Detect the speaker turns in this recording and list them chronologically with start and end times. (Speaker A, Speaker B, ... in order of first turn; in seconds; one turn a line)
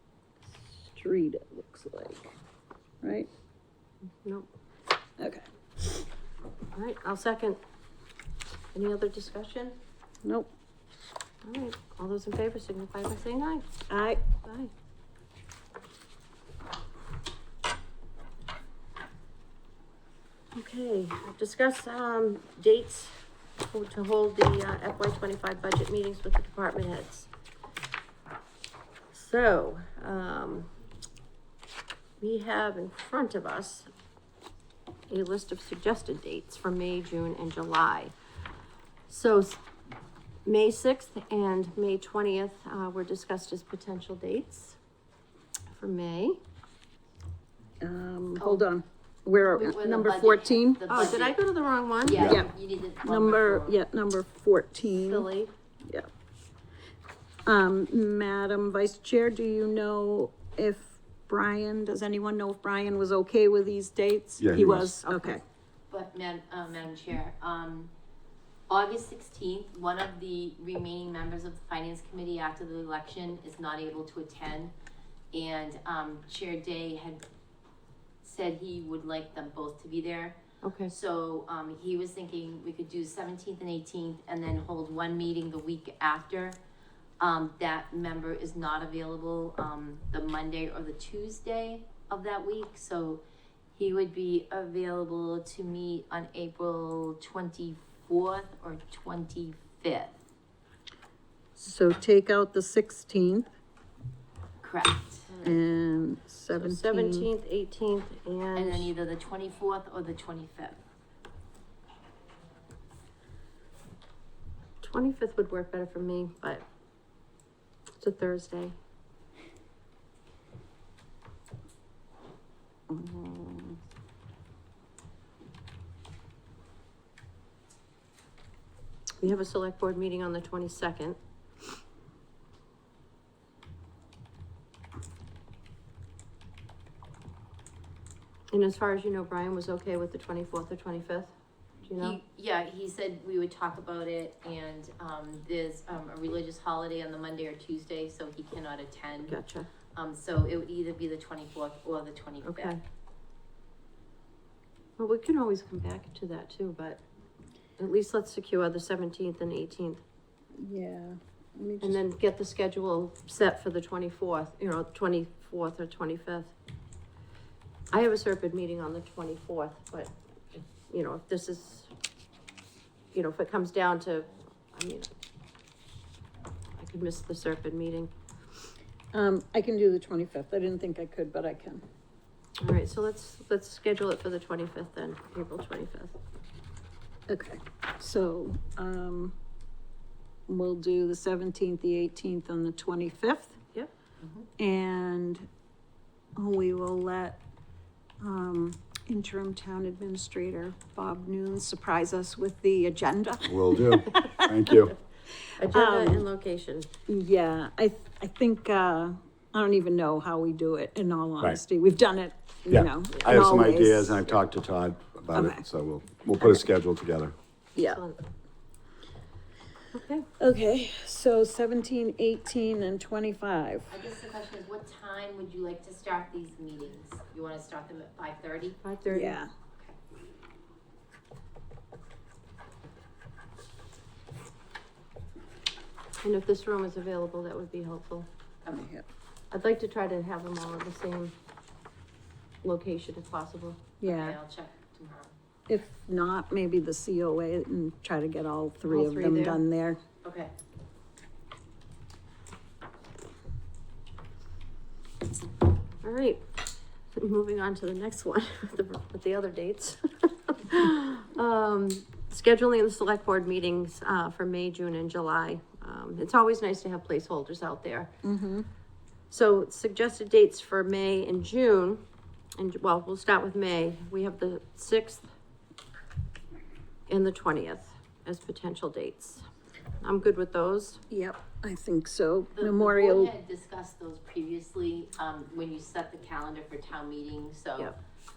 Speaker A: 0.5-2.4
Speaker A: 3.0-3.3
Speaker B: 4.2-4.5
Speaker A: 5.2-6.1
Speaker B: 6.8-7.6
Speaker B: 8.7-9.8
Speaker A: 10.2-10.5
Speaker B: 11.4-13.7
Speaker A: 13.9-14.2
Speaker B: 14.4-14.7
Speaker B: 20.6-27.3
Speaker B: 29.1-30.7
Speaker B: 32.2-33.9
Speaker B: 35.1-38.1
Speaker B: 39.1-39.6
Speaker B: 40.5-44.8
Speaker B: 45.7-46.4
Speaker A: 47.8-51.0
Speaker C: 49.5-51.4
Speaker B: 50.9-52.4
Speaker C: 52.0-53.8
Speaker D: 52.1-52.4
Speaker A: 52.2-52.5
Speaker A: 53.0-55.3
Speaker B: 55.0-55.5
Speaker A: 57.5-65.4
Speaker D: 64.4-65.0
Speaker B: 65.0-65.4
Speaker C: 65.9-67.9
Speaker C: 68.7-74.7
Speaker C: 75.3-77.2
Speaker C: 78.2-86.6
Speaker B: 80.6-80.9
Speaker C: 87.2-93.2
Speaker C: 93.8-100.2
Speaker A: 101.6-103.5
Speaker C: 104.6-105.3
Speaker B: 105.3-105.6
Speaker A: 105.4-107.3
Speaker B: 106.5-108.9
Speaker C: 108.5-110.8
Speaker B: 114.8-116.6
Speaker B: 118.0-118.7
Speaker A: 122.9-123.8
Speaker B: 129.2-131.2
Speaker B: 138.5-141.3
Speaker B: 141.8-142.2
Speaker C: 142.0-149.4
Speaker B: 149.2-149.7
Speaker C: 149.9-152.8
Speaker B: 152.4-152.8
Speaker B: 155.0-157.0
Speaker B: 157.8-160.0
Speaker A: 160.6-162.0
Speaker B: 161.8-166.5
Speaker B: 167.9-171.9
Speaker B: 173.1-175.1
Speaker B: 176.8-178.1
Speaker A: 179.1-181.8
Speaker B: 182.6-186.2
Speaker A: 187.3-189.4
Speaker A: 190.5-193.6
Speaker A: 194.6-195.5
Speaker A: 196.4-197.4
Speaker A: 198.2-204.7
Speaker D: 203.5-204.9
Speaker B: 205.6-206.9
Speaker A: 205.6-206.2
Speaker A: 207.1-214.3
Speaker D: 212.7-217.3
Speaker B: 213.2-213.5
Speaker A: 215.3-215.7
Speaker A: 217.8-218.0
Speaker B: 217.8-218.2
Speaker B: 219.9-220.3
Speaker A: 220.4-223.9
Speaker C: 223.9-228.8
Speaker B: 228.8-229.4
Speaker A: 229.1-229.5
Speaker B: 236.2-238.3
Speaker A: 238.7-239.1
Speaker B: 239.5-241.3
Speaker B: 242.6-243.9
Speaker A: 244.0-244.4
Speaker C: 244.0-245.3
Speaker A: 245.7-250.0
Speaker B: 248.9-249.6
Speaker C: 250.2-250.5
Speaker B: 256.0-256.4
Speaker B: 257.2-268.1
Speaker A: 268.2-268.7
Speaker B: 269.3-272.0
Speaker B: 272.6-275.3
Speaker B: 277.1-279.4
Speaker B: 280.0-281.0
Speaker A: 281.1-283.3
Speaker C: 282.5-287.9